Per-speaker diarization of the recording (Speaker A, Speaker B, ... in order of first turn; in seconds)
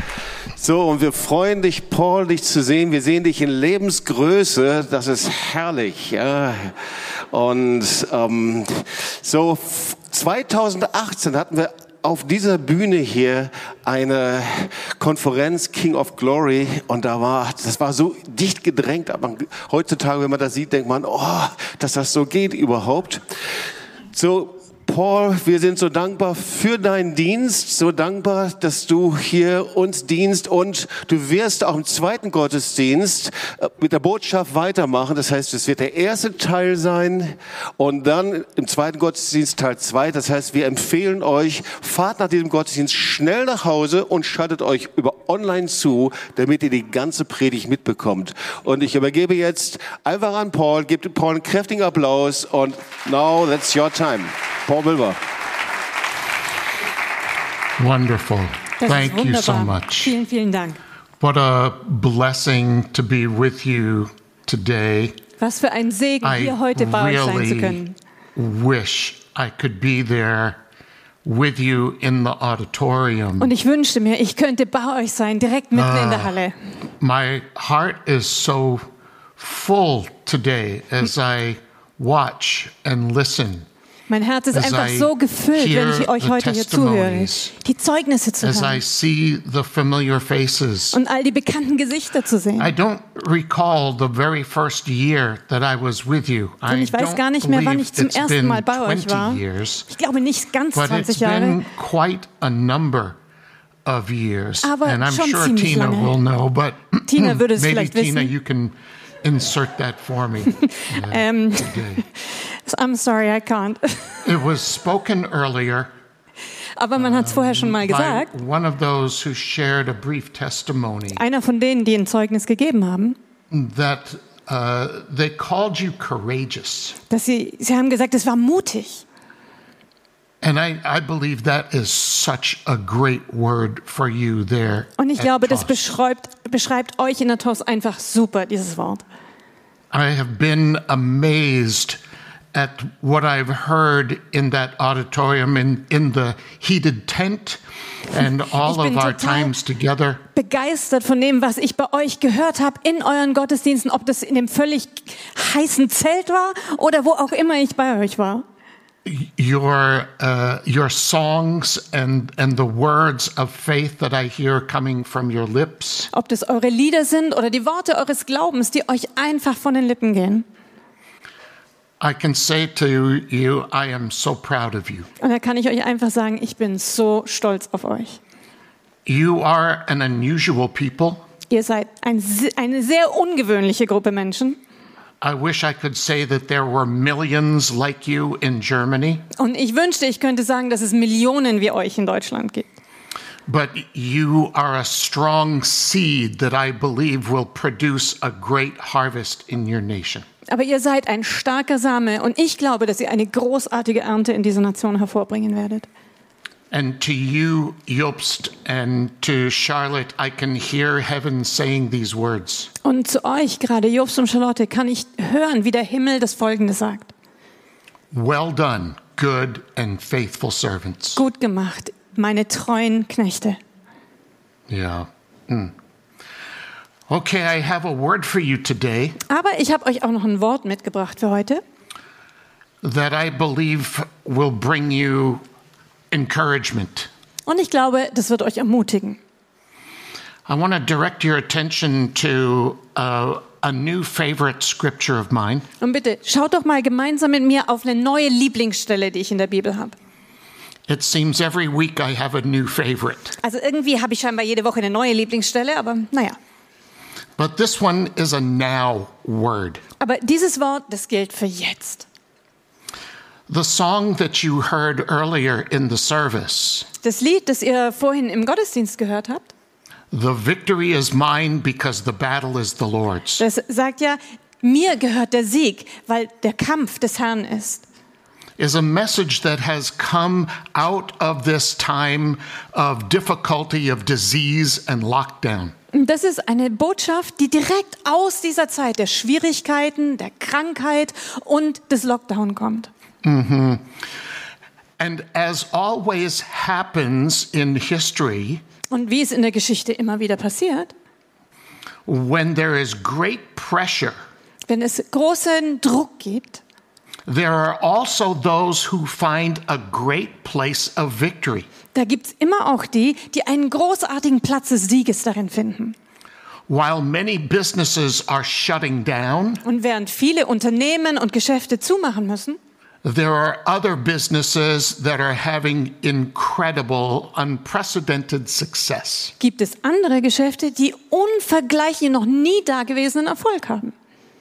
Speaker A: 0.6-6.8, 7.3-23.2, 24.1-55.2
Speaker B: 57.8-60.2, 61.2-65.2, 66.2-67.8, 68.3-70.6, 71.2-73.5, 75.7-76.4, 77.0-83.7, 84.5-87.5, 88.4-91.0, 92.6-99.9, 100.7-103.2, 103.8-112.0, 114.2-115.9, 117.0-121.2, 123.5-127.0, 130.4-135.8, 139.9-142.0, 142.5-150.2, 159.0-166.1, 172.0-175.1, 179.1-181.2, 185.2-189.2, 193.5-200.2, 206.7-212.7, 218.1-221.2, 224.7-225.7, 227.1-229.2, 232.8-235.4, 236.1-237.1, 240.4-245.7, 250.9-253.4, 257.4-259.8, 263.5-266.9, 270.1-273.4, 278.6-285.8, 293.2-293.9, 295.0-298.6, 302.1-304.2, 307.2-311.7, 316.7-319.6, 323.0-329.3
Speaker C: 58.8-60.8, 65.4-68.0, 73.4-76.5, 84.1-88.8, 90.9-92.7, 96.7-101.6, 104.6-106.1, 107.1-108.3, 110.5-114.3, 116.8-118.3, 121.1-123.2, 127.1-129.0, 135.0-139.0, 148.2-149.5, 150.3-158.4, 166.1-170.4, 175.2-178.2, 181.5-184.6, 189.3-192.7, 200.5-205.9, 212.8-217.1, 221.1-223.6, 229.2-231.6, 237.4-239.2, 245.8-249.9, 253.4-256.4, 260.0-262.1, 267.0-269.5, 273.4-277.8, 285.9-292.9, 298.9-300.9, 304.7-306.6, 311.9-315.9, 319.6-322.6, 329.4-333.9